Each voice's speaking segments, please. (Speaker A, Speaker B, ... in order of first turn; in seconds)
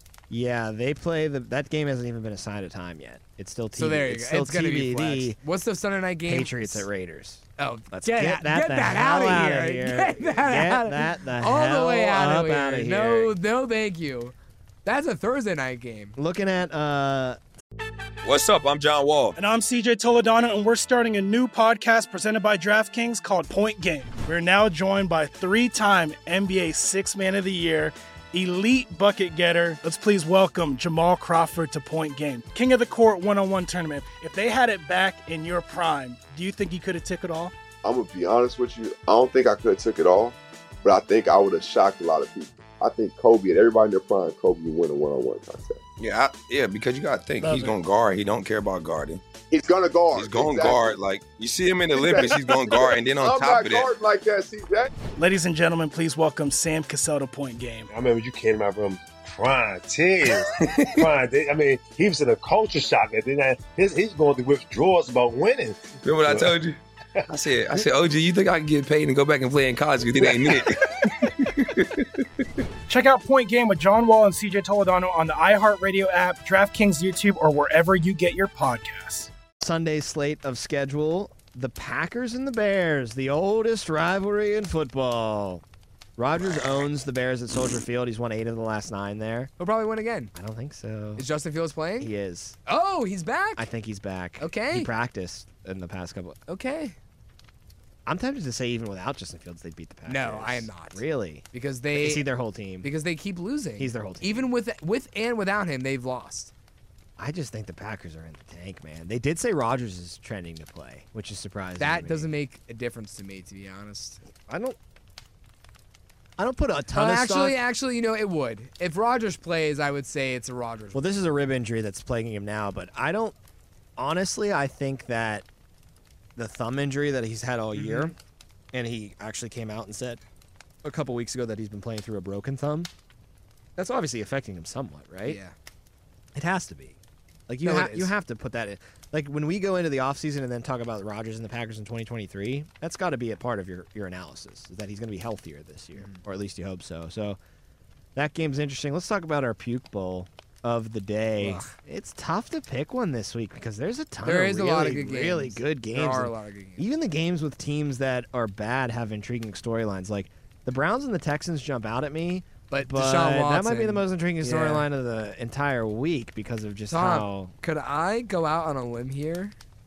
Speaker A: 0.3-5.4, 6.2-13.3, 16.1-17.4, 79.6-85.6, 86.2-89.5, 90.3-91.2, 92.0-92.6, 93.5-96.4, 98.0-102.9, 103.8-104.5, 107.2-112.3, 114.4-114.8, 116.4-117.6, 120.9-123.3, 124.0-125.5, 126.3-128.1, 128.7-130.2, 130.8-132.9, 133.8-135.4, 136.3-147.4, 148.1-167.5
Speaker B: 3.7-6.8, 7.6-14.3, 14.8-16.1, 89.6-90.3, 91.2-92.1, 92.7-93.7, 94.4-94.9, 96.5-97.0, 100.0-102.2, 102.8-106.5, 111.8-114.2, 116.9-121.0, 127.7-128.1, 135.2-135.5, 137.6-138.1, 145.9-146.2, 151.4-151.7, 154.2-156.8, 162.7-164.8, 166.9-169.5
Speaker C: 18.2-19.4, 46.0-49.2, 50.1-53.9, 66.0-72.0
Speaker D: 19.3-37.5, 47.4-47.7, 55.2-57.9, 72.9-79.3
Speaker E: 37.8-45.8, 49.5-50.9, 52.0-54.9
Speaker F: 57.9-66.5